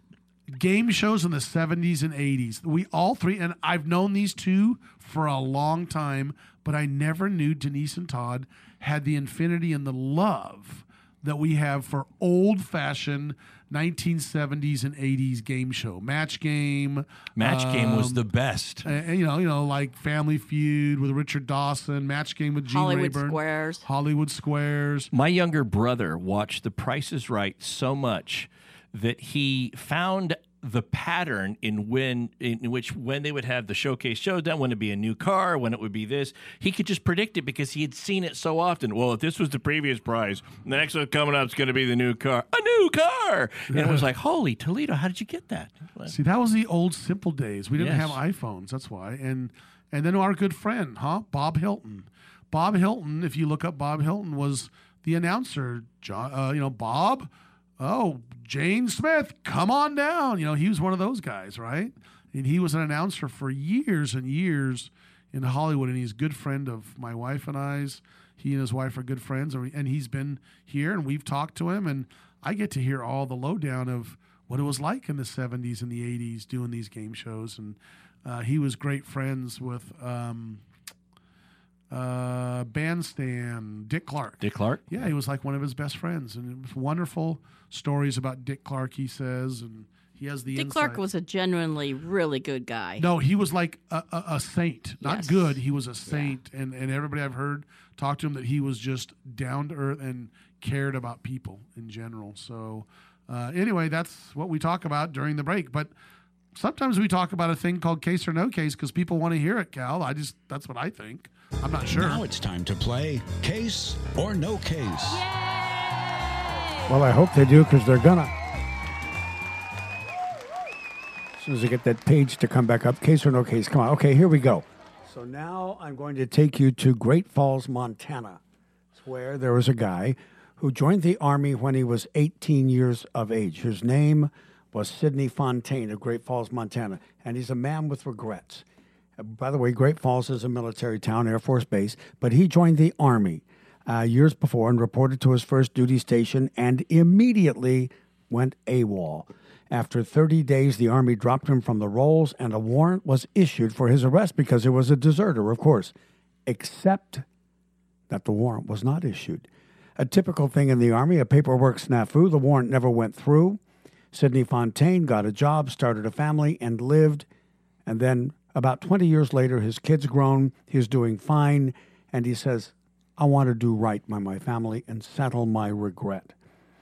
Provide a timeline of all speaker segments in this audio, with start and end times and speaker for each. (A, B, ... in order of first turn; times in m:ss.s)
0:00.5-0:18.2 A
0:17.4-0:18.9 B
0:18.8-0:25.1 A
0:22.7-0:23.9 C
0:25.1-0:46.1 B
0:43.8-0:44.0 A
0:46.1-1:20.6 A
0:47.8-0:48.2 B
1:21.9-1:31.0 A
1:24.4-1:24.9 B
1:30.5-1:33.1 C
1:33.0-1:45.9 A
1:35.0-1:36.4 C
1:46.6-1:52.2 A
1:51.9-1:55.3 D
1:56.9-1:58.3 E
2:01.4-2:08.4 E
2:08.9-2:18.6 E
2:19.2-2:35.9 E
2:36.5-2:37.2 E
2:38.1-2:39.5 E
2:40.0-2:43.6 E
2:44.1-2:47.3 E
2:47.9-2:56.4 E